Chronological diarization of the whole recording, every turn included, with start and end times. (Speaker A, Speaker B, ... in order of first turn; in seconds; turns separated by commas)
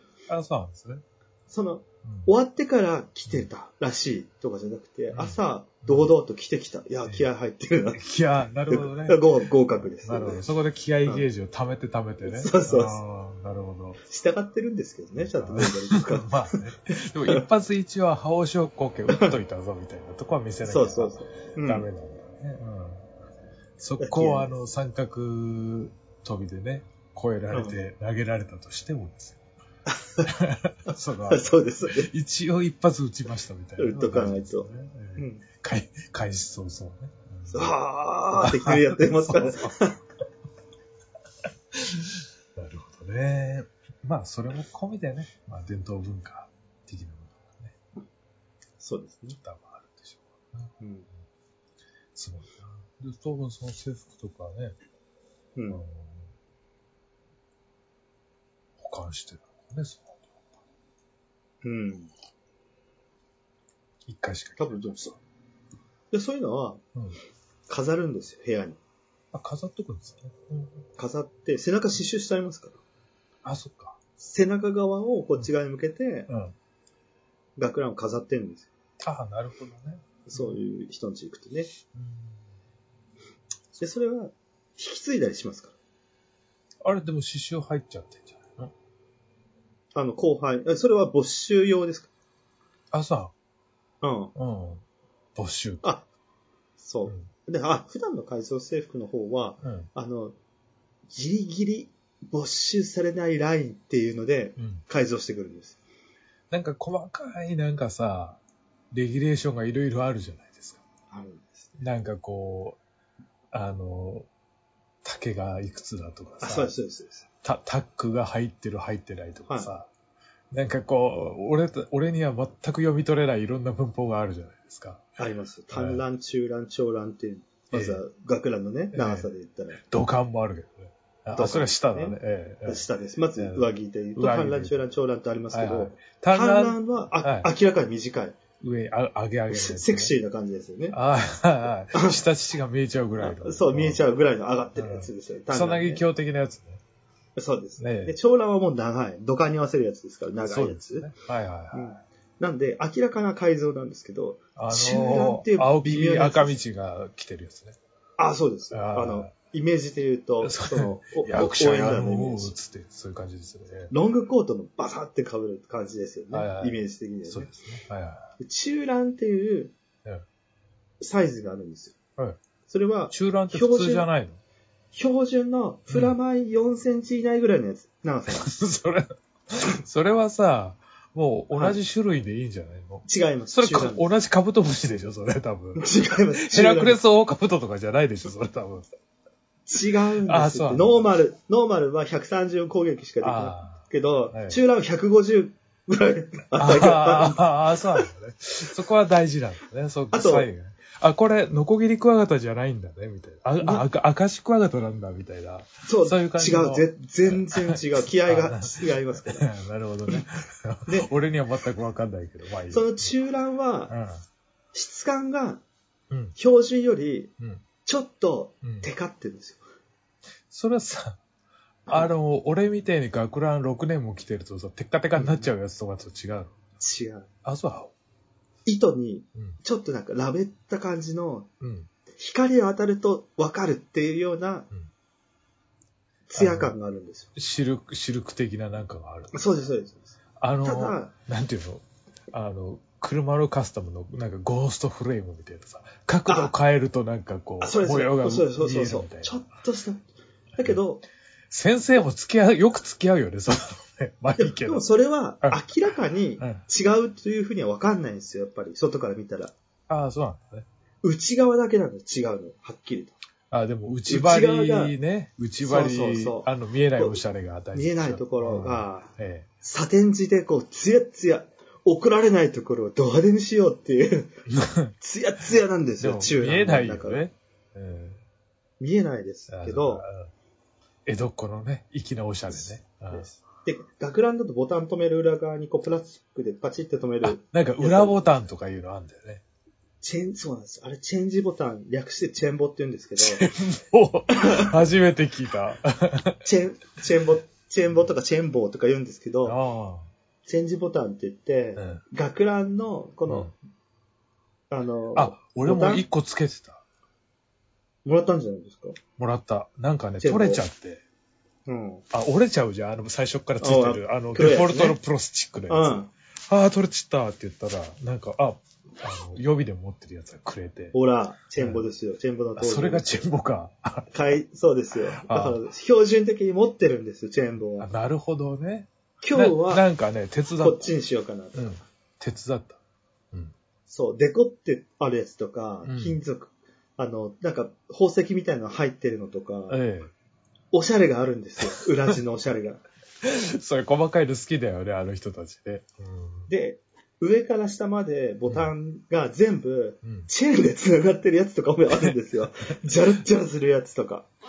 Speaker A: 0.3-1.0, Speaker B: 1.5-8.0, Speaker A: 2.0-2.3, Speaker A: 5.1-6.1, Speaker A: 8.0-9.2, Speaker B: 8.7-10.4, Speaker A: 10.0-14.0, Speaker B: 12.2-13.0, Speaker B: 14.1-17.5, Speaker A: 15.2-23.0, Speaker B: 19.1-19.4, Speaker B: 20.6-21.9, Speaker A: 23.8-29.4, Speaker B: 24.0-24.5, Speaker B: 27.5-27.8, Speaker B: 29.9-30.3, Speaker A: 30.2-37.7, Speaker B: 31.3-32.1, Speaker B: 33.8-35.5, Speaker B: 37.5-40.0, Speaker A: 38.3-39.7, Speaker A: 41.7-47.7, Speaker B: 48.8-49.4, Speaker A: 49.4-50.7, Speaker B: 50.8-51.1, Speaker A: 52.2-54.8, Speaker B: 55.6-55.8, Speaker A: 55.7-56.3, Speaker A: 58.8-60.3, Speaker B: 61.6-62.1, Speaker A: 64.1-65.1, Speaker B: 64.6-65.2, Speaker B: 66.1-66.8, Speaker B: 67.7-68.8, Speaker A: 69.3-70.8, Speaker B: 71.0-72.8, Speaker A: 73.4-74.0, Speaker B: 74.2-76.3, Speaker A: 76.3-76.5, Speaker B: 77.6-78.7, Speaker A: 79.0-80.6, Speaker B: 80.3-81.7, Speaker A: 81.9-82.4, Speaker B: 83.8-85.8, Speaker A: 86.8-88.7, Speaker B: 89.9-92.1, Speaker A: 92.9-93.3, Speaker B: 94.0-94.3, Speaker A: 94.4-94.8, Speaker A: 95.4-95.9, Speaker B: 95.8-96.1, Speaker B: 96.8-100.4, Speaker A: 99.6-99.9, Speaker B: 101.1-105.8, Speaker A: 106.5-108.4, Speaker A: 108.9-110.8, Speaker B: 111.1-111.7, Speaker A: 111.8-112.8, Speaker A: 113.5-114.3, Speaker A: 115.0-116.7, Speaker B: 116.4-117.2, Speaker A: 117.4-119.9, Speaker A: 120.5-125.0, Speaker B: 125.2-129.8, Speaker A: 125.7-126.0, Speaker A: 127.7-128.0, Speaker A: 128.9-129.3, Speaker A: 129.8-132.8, Speaker B: 131.3-138.4, Speaker A: 133.4-134.8, Speaker A: 135.5-137.5, Speaker A: 138.6-140.1, Speaker B: 139.5-141.0, Speaker A: 140.9-144.0, Speaker B: 141.9-142.2, Speaker B: 143.2-146.0, Speaker A: 144.8-146.8, Speaker B: 147.4-151.1, Speaker A: 147.8-148.1, Speaker A: 150.5-151.9, Speaker B: 151.7-156.6, Speaker A: 154.6-157.8, Speaker B: 158.2-162.6, Speaker A: 158.7-159.3, Speaker A: 160.4-163.9, Speaker B: 163.9-167.5, Speaker A: 166.3-168.3, Speaker B: 168.4-169.7, Speaker B: 171.0-171.9, Speaker B: 172.7-174.1, Speaker A: 173.1-174.4, Speaker B: 174.9-178.5, Speaker A: 175.9-176.1, Speaker A: 178.3-188.8, Speaker B: 181.5-181.8, Speaker B: 183.0-184.1, Speaker B: 185.8-187.0, Speaker B: 189.7-198.0, Speaker A: 190.2-191.0, Speaker A: 193.2-194.6, Speaker A: 196.6-213.1, Speaker B: 200.1-200.5, Speaker B: 203.6-203.8, Speaker B: 205.8-209.5, Speaker B: 212.7-213.9, Speaker A: 213.9-214.2, Speaker B: 214.7-215.6, Speaker A: 216.1-216.3, Speaker B: 216.3-217.3, Speaker B: 217.8-219.6, Speaker A: 218.6-218.9, Speaker A: 220.5-221.2, Speaker A: 221.9-226.5, Speaker B: 225.2-225.5, Speaker B: 226.8-227.3, Speaker A: 227.4-227.9, Speaker B: 228.6-231.5, Speaker A: 231.6-231.9, Speaker B: 232.2-234.7, Speaker B: 236.3-237.3, Speaker A: 236.3-236.7, Speaker A: 237.3-239.7, Speaker B: 239.3-241.1, Speaker A: 240.4-249.4, Speaker B: 246.3-246.5, Speaker B: 247.6-251.1, Speaker A: 251.5-254.9, Speaker B: 254.4-259.6, Speaker A: 255.4-255.7, Speaker A: 259.9-260.7, Speaker B: 261.0-263.1, Speaker A: 263.5-269.5, Speaker B: 264.1-264.9, Speaker B: 265.6-267.2, Speaker B: 267.8-269.1, Speaker B: 269.6-274.3, Speaker A: 274.5-274.9, Speaker B: 275.0-277.2, Speaker A: 276.0-278.2, Speaker B: 278.8-280.1, Speaker A: 279.5-280.3, Speaker A: 281.1-283.3, Speaker B: 282.5-288.5, Speaker A: 287.2-289.4, Speaker B: 290.0-293.4, Speaker A: 293.2-296.4, Speaker B: 294.3-294.6, Speaker B: 296.4-299.6, Speaker A: 299.4-300.1, Speaker B: 300.4-303.5, Speaker A: 301.8-302.0, Speaker A: 303.2-303.5, Speaker B: 304.7-306.1, Speaker A: 305.1-306.8, Speaker B: 308.1-309.0, Speaker A: 309.2-311.0, Speaker B: 310.2-310.6, Speaker B: 311.6-312.1, Speaker A: 312.1-320.9, Speaker B: 313.6-315.0, Speaker B: 315.7-316.1, Speaker B: 320.9-323.3, Speaker A: 321.6-321.8, Speaker A: 322.6-324.2, Speaker B: 324.1-327.9, Speaker A: 325.2-325.6, Speaker A: 327.8-330.9, Speaker B: 329.2-329.9, Speaker B: 330.6-331.8, Speaker A: 331.5-332.8, Speaker B: 333.9-339.8, Speaker A: 335.9-336.2, Speaker A: 339.7-340.1, Speaker B: 340.7-342.8, Speaker A: 341.8-342.1, Speaker A: 343.2-346.5, Speaker B: 346.5-354.3, Speaker A: 350.0-350.3